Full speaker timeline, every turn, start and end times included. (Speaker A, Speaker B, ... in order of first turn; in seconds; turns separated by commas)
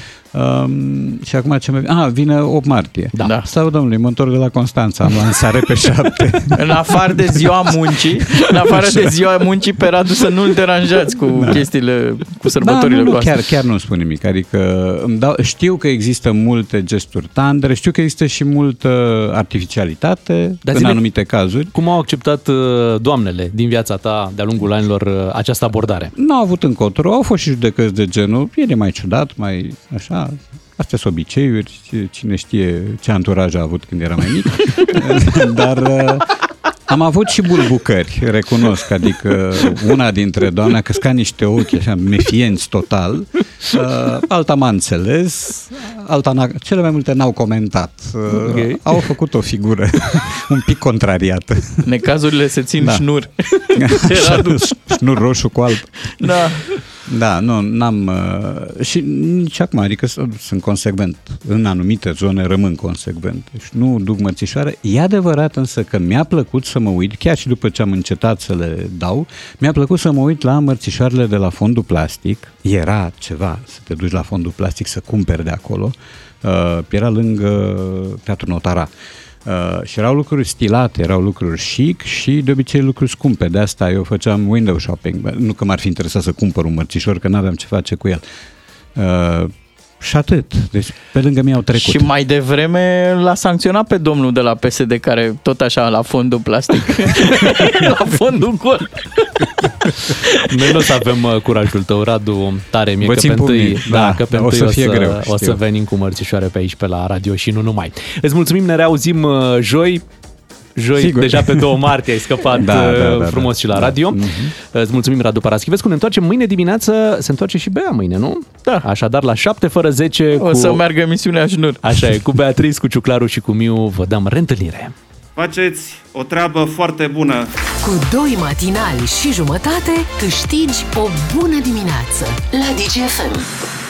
Speaker A: 0.3-6.6, Speaker B: 3.2-3.5, Speaker B: 6.5-13.5, Speaker A: 11.3-11.7, Speaker A: 12.6-21.7, Speaker C: 20.7-21.0, Speaker C: 21.7-26.1, Speaker A: 26.2-36.3, Speaker A: 36.9-51.9, Speaker C: 48.3-48.9, Speaker B: 51.9-55.0, Speaker A: 53.8-56.5, Speaker B: 56.2-56.7, Speaker A: 57.1-78.9, Speaker A: 79.5-88.2, Speaker A: 89.0-92.1, Speaker B: 91.7-99.5, Speaker B: 100.1-100.8, Speaker C: 100.5-110.0, Speaker A: 103.0-105.6, Speaker C: 110.8-120.8, Speaker A: 111.0-111.8, Speaker A: 112.5-114.5, Speaker B: 120.4-122.0, Speaker C: 121.8-125.0, Speaker D: 125.4-127.5, Speaker E: 127.8-133.5